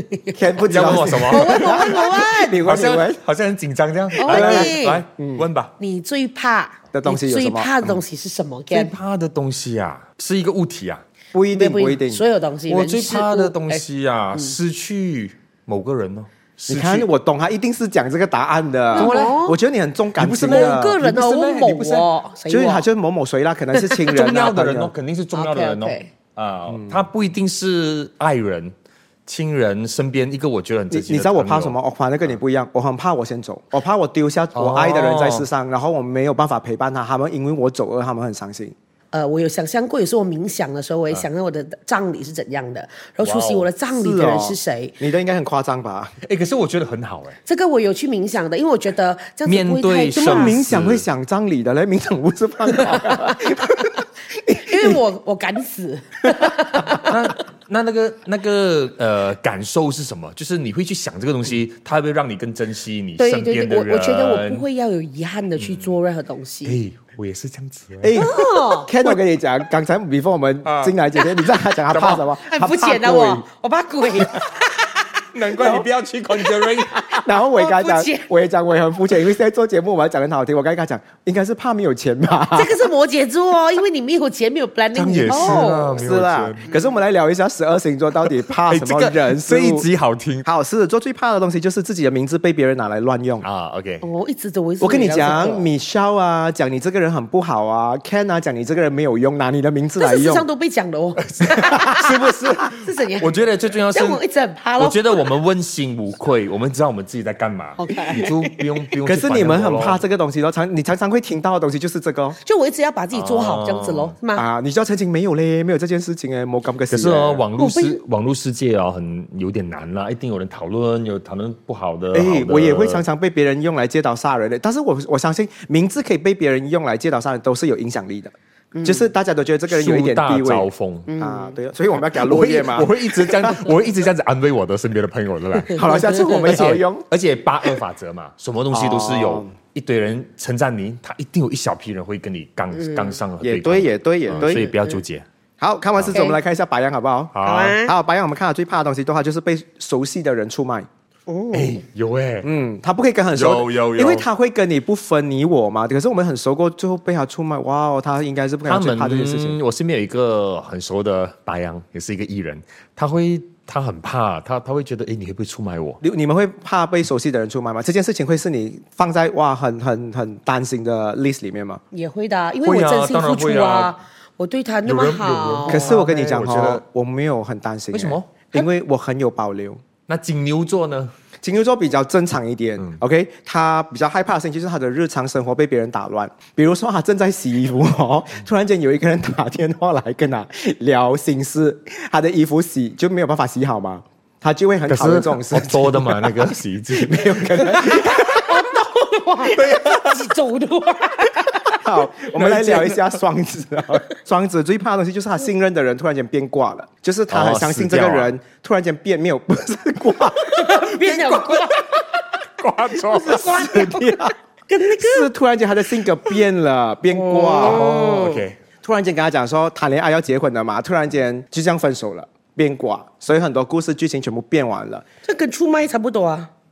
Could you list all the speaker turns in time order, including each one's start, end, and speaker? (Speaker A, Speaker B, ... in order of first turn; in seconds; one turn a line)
Speaker A: 0.1-2.6
Speaker B: 0.3-3.2
Speaker C: 0.7-1.9
Speaker C: 2.6-5.8
Speaker A: 4.2-5.0
Speaker B: 4.2-5.5
Speaker A: 5.8-8.9
Speaker B: 6.9-8.0
Speaker C: 8.7-11.0
Speaker B: 11.3-12.2
Speaker A: 11.5-14.6
Speaker C: 12.7-17.1
Speaker B: 16.7-21.0
Speaker A: 18.9-19.6
Speaker C: 18.9-19.4
Speaker C: 20.1-22.1
Speaker A: 20.4-22.9
Speaker B: 22.5-24.9
Speaker C: 24.0-28.7
Speaker A: 25.3-26.1
Speaker B: 26.7-27.0
Speaker C: 29.2-31.8
Speaker B: 30.9-38.7
Speaker C: 34.5-35.5
Speaker A: 39.1-45.0
Speaker C: 43.2-43.7
Speaker B: 43.9-46.1
Speaker C: 46.2-47.4
Speaker A: 47.5-50.6
Speaker C: 49.5-51.1
Speaker B: 50.1-55.0
Speaker A: 52.9-53.5
Speaker A: 54.5-57.3
Speaker C: 57.0-64.6
Speaker A: 63.2-66.8
Speaker C: 65.6-65.9
Speaker C: 66.6-68.5
Speaker B: 68.0-73.4
Speaker A: 68.2-68.9
Speaker C: 70.6-71.0
Speaker C: 71.9-72.2
Speaker A: 72.4-75.6
Speaker C: 75.3-77.2
Speaker B: 75.5-75.8
Speaker A: 76.4-78.3
Speaker B: 77.2-82.8
Speaker A: 82.5-86.0
Speaker C: 84.9-86.6
Speaker B: 85.3-89.9
Speaker C: 88.1-90.5
Speaker B: 90.4-93.5
Speaker C: 93.4-94.0
Speaker A: 94.0-95.7
Speaker B: 94.8-100.5
Speaker A: 100.0-103.4
Speaker C: 101.2-104.2
Speaker B: 101.5-102.0
Speaker A: 103.9-105.2
Speaker C: 104.8-110.0
Speaker A: 107.8-108.3
Speaker B: 109.0-112.4
Speaker A: 112.4-114.4
Speaker C: 113.1-114.1
Speaker B: 114.3-117.4
Speaker C: 116.9-123.0
Speaker A: 117.5-118.0
Speaker B: 122.1-133.7
Speaker A: 128.7-129.1
Speaker C: 129.7-131.1
Speaker A: 131.1-131.6
Speaker C: 131.9-135.8
Speaker A: 135.7-136.4
Speaker B: 135.7-137.1
Speaker C: 136.4-145.3
Speaker B: 138.7-139.6
Speaker A: 142.7-143.2
Speaker B: 143.4-144.7
Speaker A: 144.3-144.8
Speaker B: 145.6-150.9
Speaker A: 146.1-146.4
Speaker C: 147.3-147.8
Speaker A: 147.4-147.9
Speaker A: 151.3-151.8
Speaker C: 151.5-152.5
Speaker B: 152.4-159.6
Speaker C: 153.3-154.3
Speaker C: 158.7-166.0
Speaker B: 166.0-171.8
Speaker A: 171.9-176.0
Speaker C: 172.6-173.9
Speaker C: 174.8-176.8
Speaker B: 175.7-179.8
Speaker C: 177.9-178.4
Speaker C: 180.1-181.1
Speaker B: 181.4-198.5
Speaker C: 194.9-197.7
Speaker A: 197.7-201.8
Speaker C: 199.4-200.3
Speaker B: 201.7-210.8
Speaker C: 202.3-203.2
Speaker C: 207.3-208.3
Speaker A: 210.4-212.2
Speaker C: 211.0-211.9
Speaker C: 212.6-213.6
Speaker A: 213.0-215.3
Speaker B: 213.1-214.3
Speaker B: 214.9-218.0
Speaker A: 217.1-218.4
Speaker C: 217.6-218.6
Speaker B: 218.8-225.1
Speaker A: 225.2-226.5